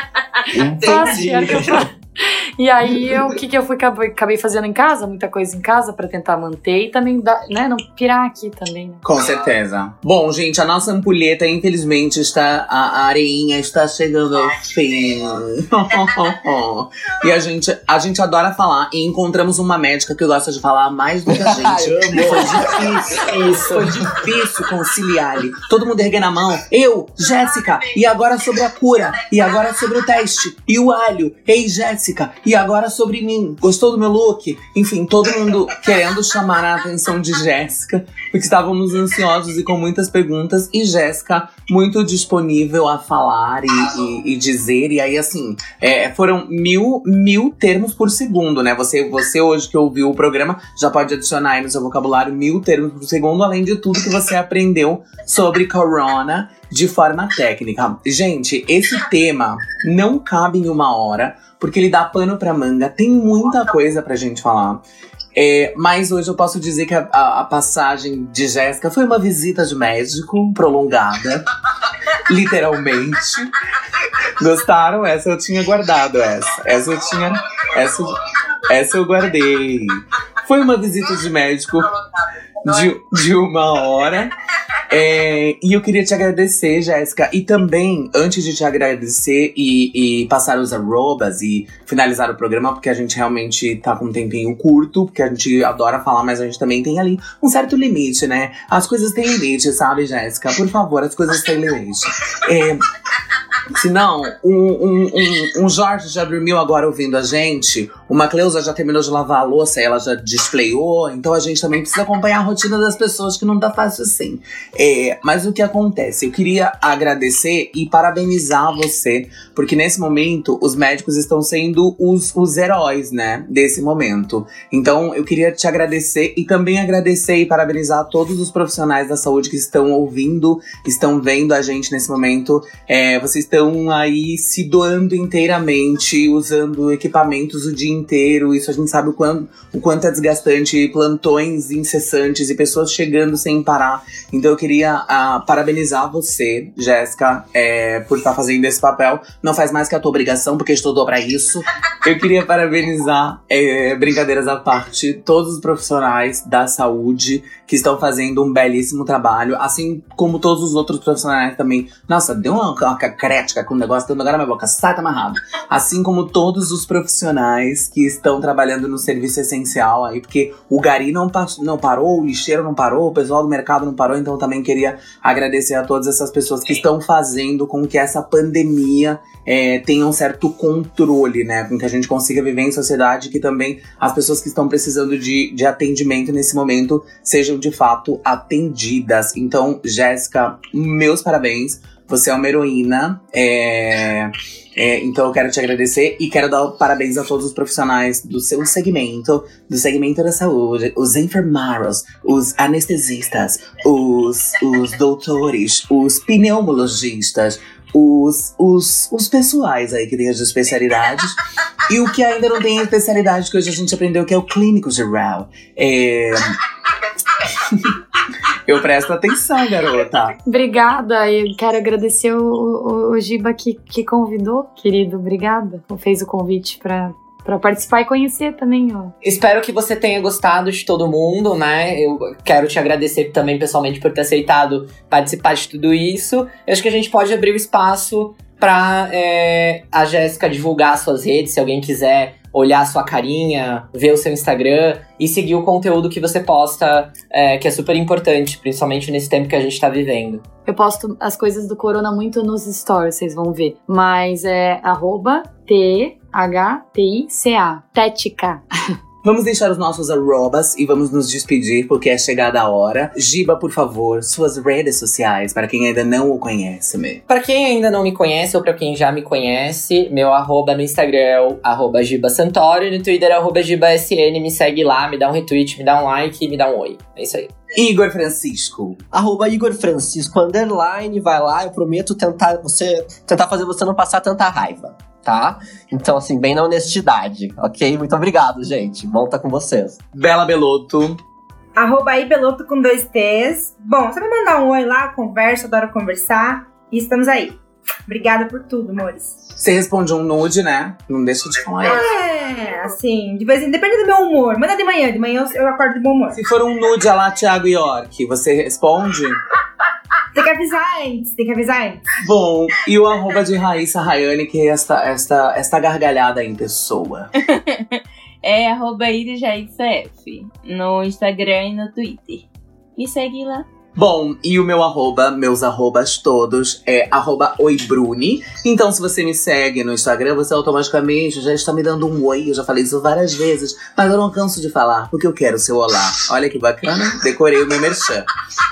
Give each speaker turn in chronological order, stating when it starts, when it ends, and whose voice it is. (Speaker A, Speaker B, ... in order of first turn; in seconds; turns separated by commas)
Speaker A: 0.4-1.9, Speaker B: 0.8-9.0, Speaker C: 9.0-64.8, Speaker A: 21.3-24.0, Speaker C: 65.3-71.5, Speaker C: 72.2-73.5, Speaker C: 74.4-78.1, Speaker C: 78.7-81.9, Speaker C: 82.6-84.3, Speaker C: 84.9-102.8, Speaker C: 103.7-211.3, Speaker C: 211.9-216.5, Speaker C: 217.4-217.9, Speaker C: 218.7-220.3, Speaker B: 220.5-229.1, Speaker D: 229.2-250.4, Speaker B: 250.7-258.6, Speaker C: 259.2-267.2, Speaker D: 267.3-277.5, Speaker C: 277.7-279.0, Speaker A: 279.1-290.0, Speaker C: 290.1-291.2, Speaker E: 291.8-299.4, Speaker C: 299.6-302.0, Speaker E: 301.9-306.4, Speaker C: 306.3-309.4, Speaker E: 310.3-312.0, Speaker C: 312.2-317.3, Speaker F: 317.4-322.4, Speaker F: 322.9-323.6, Speaker C: 323.9-338.3